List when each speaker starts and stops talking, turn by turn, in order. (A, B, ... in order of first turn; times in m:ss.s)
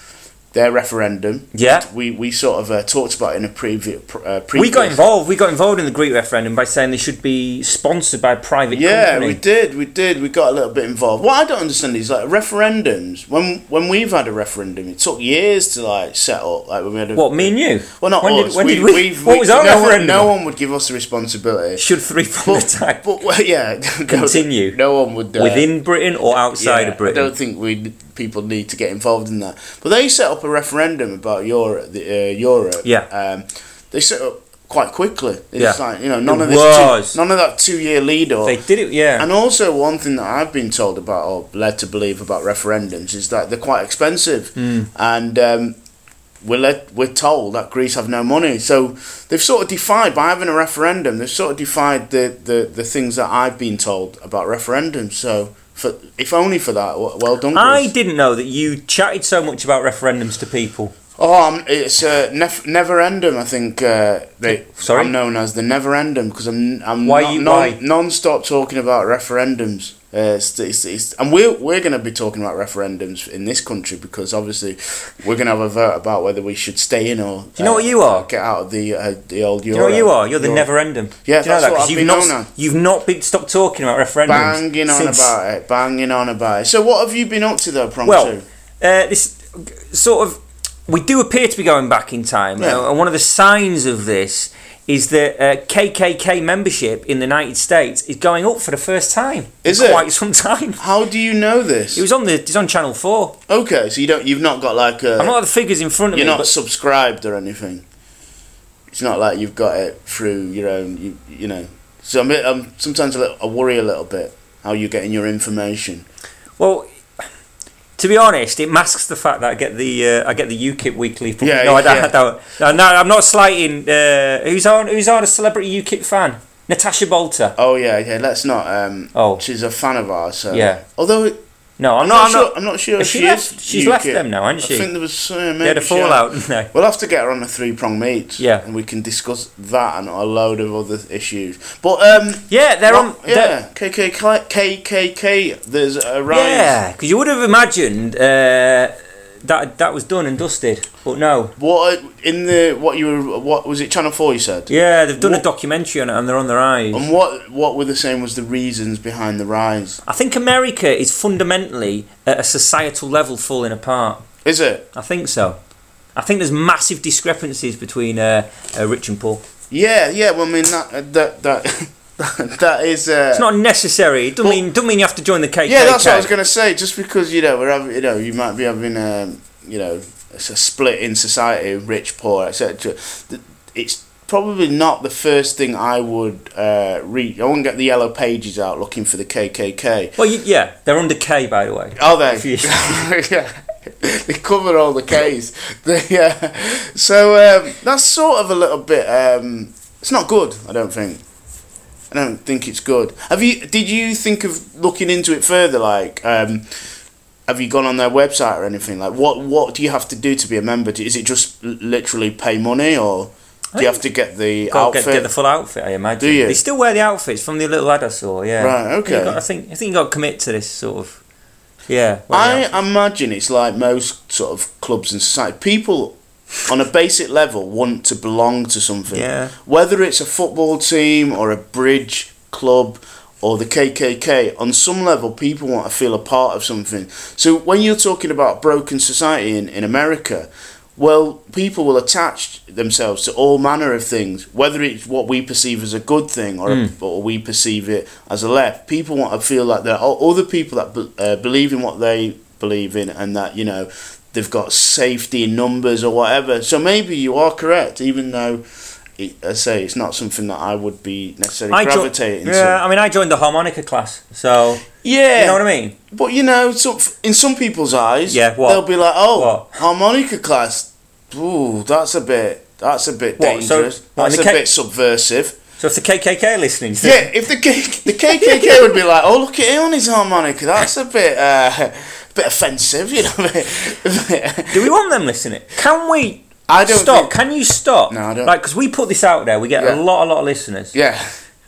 0:00.5-0:05.0 A
0:01.5-0:01.8 B
0:04.5-0:09.4 B
0:08.7-0:21.8 A
0:17.1-0:20.3 B
0:21.8-0:23.0 B
0:22.4-0:25.7 A
0:24.1-0:24.8 B
0:25.4-0:27.3 B
0:26.6-0:38.6 A
0:35.6-0:37.2 B
0:38.4-0:39.3 B
0:39.2-0:45.7 A
0:44.6-0:44.9 B
0:46.4-0:57.9 A
0:57.5-1:00.9 B
1:01.2-1:20.7 A
1:04.8-1:05.1 B
1:07.0-1:07.8 B
1:17.6-1:18.2 B
1:19.7-1:25.3 B
1:21.2-1:22.5 A
1:24.3-1:28.4 A
1:28.0-1:40.8 B
1:32.6-1:32.8 A
1:39.6-1:40.1 A
1:40.8-1:42.0 A
1:41.9-1:43.3 B
1:43.5-1:45.4 A
1:45.2-1:46.5 B
1:46.1-1:47.8 A
1:48.9-1:56.0 A
1:56.6-1:56.9 B
1:58.0-2:07.5 B
2:01.4-2:02.2 A
2:07.6-2:11.4 A
2:09.1-2:09.4 B
2:10.5-2:10.8 B
2:11.8-2:14.9 B
2:12.0-2:26.8 A
2:15.6-2:16.7 B
2:22.5-2:23.6 B
2:26.3-2:31.5 B
2:31.6-2:35.4 A
2:34.7-2:37.0 B
2:36.9-2:40.0 A
2:40.1-2:44.2 B
2:44.4-2:44.9 A
2:44.9-2:45.6 B
2:46.2-2:49.4 B
2:49.7-2:53.5 A
2:53.3-2:56.3 B
2:55.6-3:10.1 A
3:10.2-3:13.1 B
3:12.0-3:21.2 A
3:22.1-3:26.6 A
3:27.5-3:35.3 A
3:33.7-3:34.0 B
3:34.6-3:41.2 B
3:36.2-3:36.6 A
3:38.6-3:39.4 A
3:41.9-3:42.8 B
3:42.3-3:46.2 A
3:46.7-4:18.6 A
3:49.1-3:49.5 B
4:06.7-4:06.9 B
4:19.2-4:22.8 A
4:21.7-4:24.8 B
4:25.0-4:35.6 A
4:25.4-4:26.0 B
4:28.3-4:29.7 B
4:33.4-4:34.6 B
4:35.8-4:37.3 B
4:37.0-4:44.9 A
4:38.3-4:38.8 B
4:44.7-4:50.9 B
4:46.7-4:47.4 A
4:48.1-4:48.5 A
4:49.8-4:50.0 A
4:50.9-4:51.4 A